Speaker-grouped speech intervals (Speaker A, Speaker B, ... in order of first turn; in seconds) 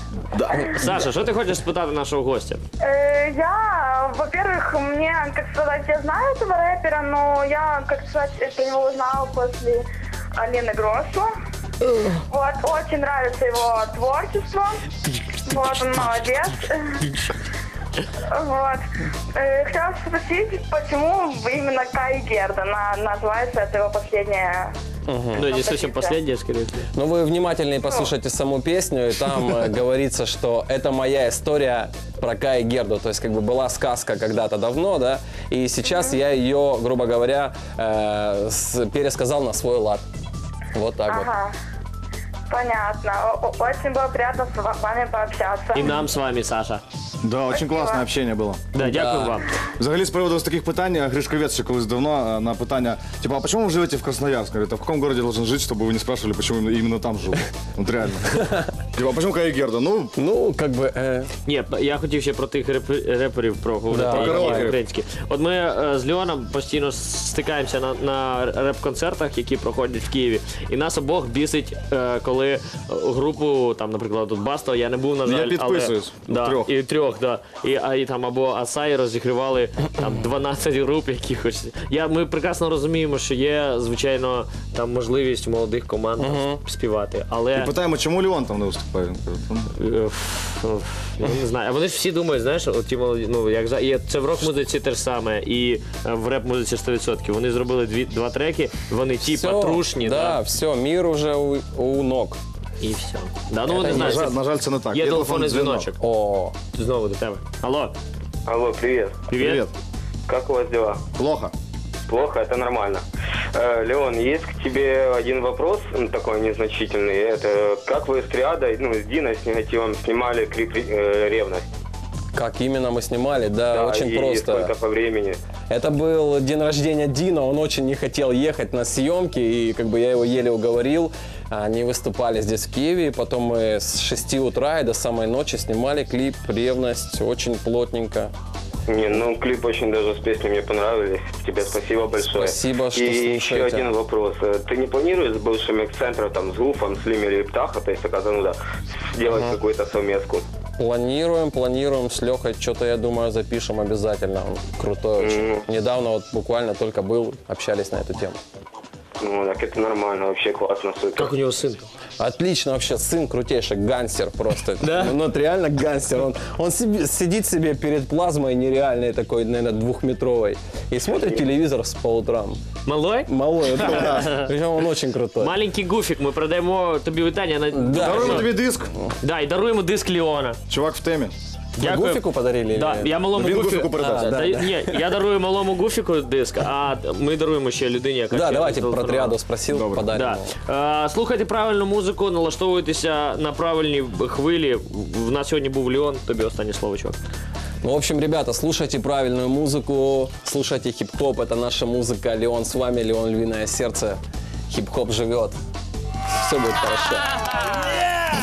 Speaker A: 0.3-1.1, 47.2-48.7, 49.8-60.1, 64.0-64.8, 75.2-76.7, 87.5-89.7, 103.8-105.9, 109.4-109.7, 111.1-111.5, 177.9-178.9, 180.7-181.3, 183.3-184.3, 189.7-190.1
Speaker B: 0.5-2.6, 25.3-26.9, 45.7-46.8, 48.7-49.5, 61.5-87.7, 89.8-100.4, 102.8-104.3, 104.9-106.0, 106.7-107.9, 109.3-109.6, 161.2-161.9, 164.8-165.1, 172.8-174.5, 175.4-178.5, 179.2-180.6, 181.8-189.4, 190.1-197.2
Speaker C: 2.8-9.8, 10.4-11.3, 12.3-14.8, 15.5-17.0, 18.3-18.8, 19.3-24.7, 25.4-26.1, 35.9-36.1, 41.1-41.5, 42.5-45.9, 47.5-48.0
Speaker D: 25.1-25.5, 26.9-40.0, 40.7-41.3, 48.8-49.4, 58.4-58.6, 60.1-61.3, 63.9-64.7, 86.2-86.6, 99.2-102.4, 103.7-104.3, 106.0-106.5, 122.3-124.7, 125.7-138.3, 142.2-143.9, 149.2-149.6, 150.8-158.4, 162.2-172.6, 173.3-175.6, 177.7-178.5, 181.8-183.1, 184.0-185.0, 188.3-190.5, 197.8-205.6, 206.3-207.3
Speaker E: 108.5-109.3, 110.3-111.0, 112.1-121.7, 123.7-125.4, 138.9-148.6, 149.1-150.4, 155.2-155.6, 159.2-161.3